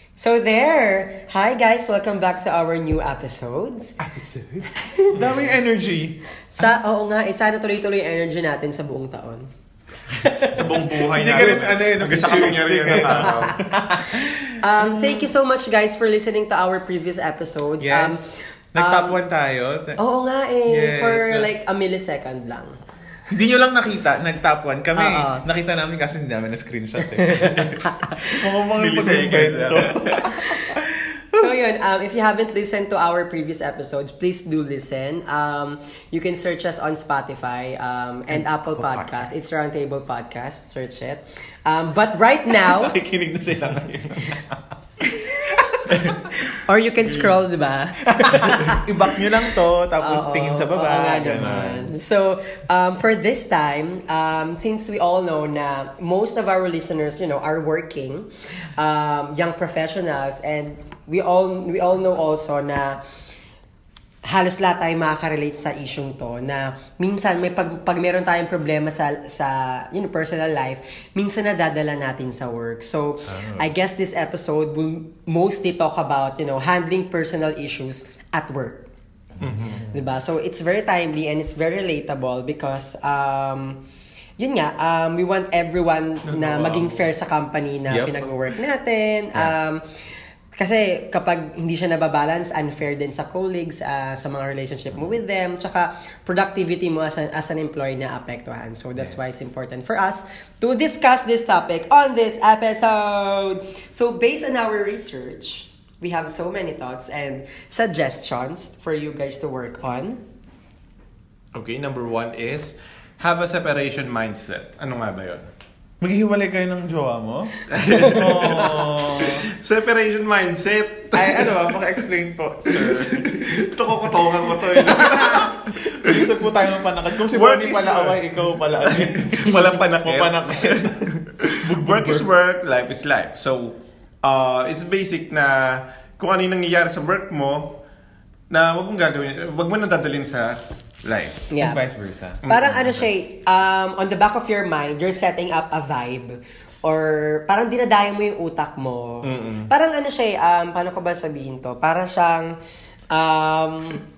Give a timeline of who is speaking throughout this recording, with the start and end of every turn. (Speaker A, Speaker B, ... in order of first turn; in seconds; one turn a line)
Speaker A: 0.2-4.0
Speaker B: 4.0-6.7
Speaker A: 6.5-9.5
Speaker A: 10.1-10.8
Speaker C: 10.5-13.6
Speaker B: 11.0-15.3
Speaker A: 13.1-13.5
Speaker A: 14.1-19.2
Speaker B: 17.8-18.2
Speaker B: 18.7-20.0
Speaker A: 20.0-22.8
Speaker B: 20.7-21.5
Speaker B: 23.3-31.5
Speaker A: 24.9-25.4
Speaker A: 27.1-28.4
Speaker C: 28.7-30.3
Speaker A: 31.4-43.0
Speaker B: 38.3-39.4
Speaker B: 42.6-46.4
Speaker A: 45.2-45.8
Speaker A: 46.5-48.8
Speaker B: 48.1-51.9
Speaker A: 50.0-63.0
Speaker A: 64.2-78.8
Speaker B: 73.3-73.7
Speaker B: 79.4-80.0
Speaker C: 79.4-79.8
Speaker A: 79.9-83.8
Speaker A: 84.4-89.8
Speaker C: 86.3-87.1
Speaker B: 87.9-88.3
Speaker A: 90.5-110.2
Speaker C: 111.5-115.5
Speaker B: 116.0-119.5
Speaker C: 117.7-121.7
Speaker B: 121.1-123.4
Speaker C: 122.7-126.3
Speaker B: 124.1-132.3
Speaker C: 127.2-128.2
Speaker C: 128.8-137.8
Speaker C: 138.5-141.4
Speaker A: 141.5-141.8
Speaker B: 141.6-143.1
Speaker C: 142.4-142.9
Speaker A: 142.4-152.5
Speaker C: 149.2-149.7
Speaker A: 153.1-154.0